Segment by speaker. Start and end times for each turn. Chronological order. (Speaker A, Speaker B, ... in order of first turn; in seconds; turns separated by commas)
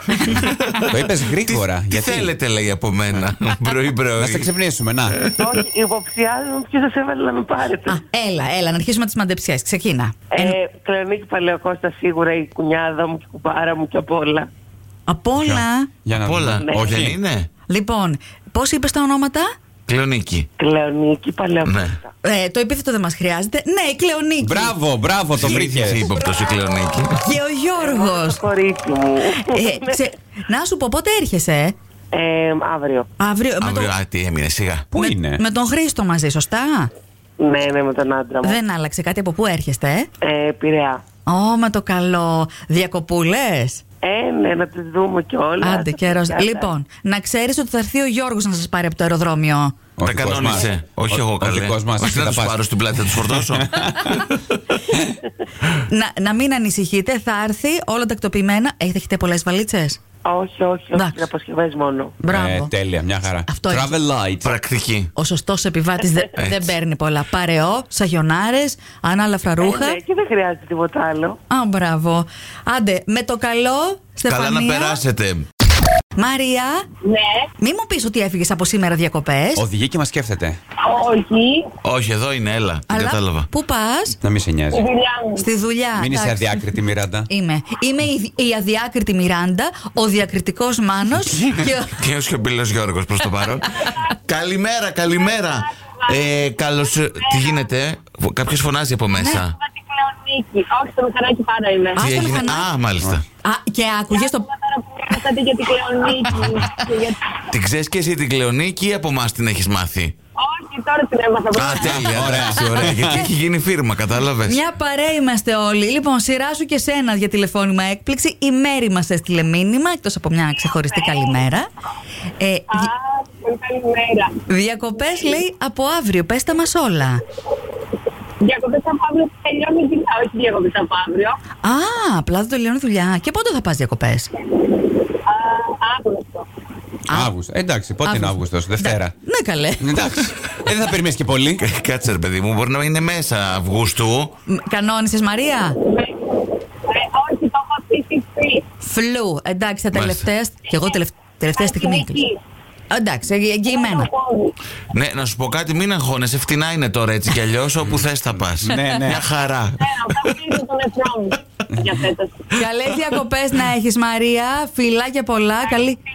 Speaker A: 0.3-4.5, Speaker B: 0.9-2.3, Speaker B: 4.2-5.3, Speaker C: 5.4-8.0, Speaker D: 7.8-10.6, Speaker C: 10.3-14.5, Speaker D: 15.1-15.9, Speaker B: 15.4-17.2, Speaker A: 16.2-17.5, Speaker D: 17.7-19.5, Speaker A: 19.9-20.5, Speaker C: 20.6-22.1, Speaker A: 21.6-22.0, Speaker D: 22.2-24.7, Speaker B: 24.4-26.0, Speaker A: 25.3-27.2, Speaker D: 27.2-28.4, Speaker C: 28.1-30.0, Speaker D: 29.4-31.7, Speaker C: 32.1-32.9, Speaker E: 32.2-33.0, Speaker D: 33.2-33.9, Speaker A: 33.6-34.9, Speaker B: 34.9-35.4, Speaker D: 34.9-36.9, Speaker C: 37.4-38.6, Speaker E: 37.4-38.0, Speaker D: 38.4-40.1, Speaker C: 40.2-41.0, Speaker E: 40.4-40.9, Speaker D: 41.2-43.8, Speaker C: 44.0-46.7, Speaker E: 44.4-44.7, Speaker D: 45.6-49.8, Speaker B: 50.0-54.2, Speaker A: 50.0-54.4, Speaker D: 55.9-60.0, Speaker C: 60.2-62.1, Speaker D: 60.9-61.2, Speaker B: 62.2-64.5, Speaker D: 62.2-62.7, Speaker D: 63.5-63.9, Speaker A: 64.4-65.1, Speaker D: 65.1-70.0, Speaker A: 66.3-66.7, Speaker C: 69.6-71.4, Speaker D: 71.5-75.0, Speaker A: 74.2-75.4, Speaker D: 76.2-76.8, Speaker E: 77.0-77.5, Speaker D: 77.6-79.6, Speaker B: 79.5-80.6, Speaker E: 80.8-81.7, Speaker A: 81.8-83.5, Speaker D: 82.9-84.2, Speaker B: 84.2-84.9, Speaker E: 84.7-85.4, Speaker D: 85.4-86.6, Speaker B: 85.9-87.3, Speaker D: 87.3-92.0, Speaker A: 92.0-99.5, Speaker E: 95.3-96.3, Speaker E: 97.1-97.7, Speaker E: 99.2-102.0, Speaker D: 101.9-102.7, Speaker A: 102.0-103.2, Speaker D: 103.4-104.4, Speaker E: 104.1-107.3, Speaker A: 107.5-110.1, Speaker E: 110.4-112.2, Speaker A: 111.5-114.6, Speaker B: 111.8-113.2, Speaker D: 112.6-113.2, Speaker D: 114.5-121.7, Speaker D: 122.4-122.9, Speaker E: 122.7-124.4, Speaker D: 124.5-127.2, Speaker E: 128.4-131.4, Speaker D: 131.6-134.3, Speaker E: 135.2-136.5, Speaker B: 137.1-139.1, Speaker D: 138.0-139.9, Speaker B: 139.8-141.6, Speaker A: 141.6-144.3, Speaker D: 144.5-145.8, Speaker E: 145.8-146.2, Speaker E: 146.9-148.6, Speaker D: 148.8-152.2, Speaker A: 149.9-150.2, Speaker E: 151.6-152.4, Speaker D: 152.9-154.1, Speaker E: 153.7-154.5, Speaker A: 154.9-160.4, Speaker B: 158.6-159.2, Speaker E: 159.8-162.5, Speaker D: 162.5-166.0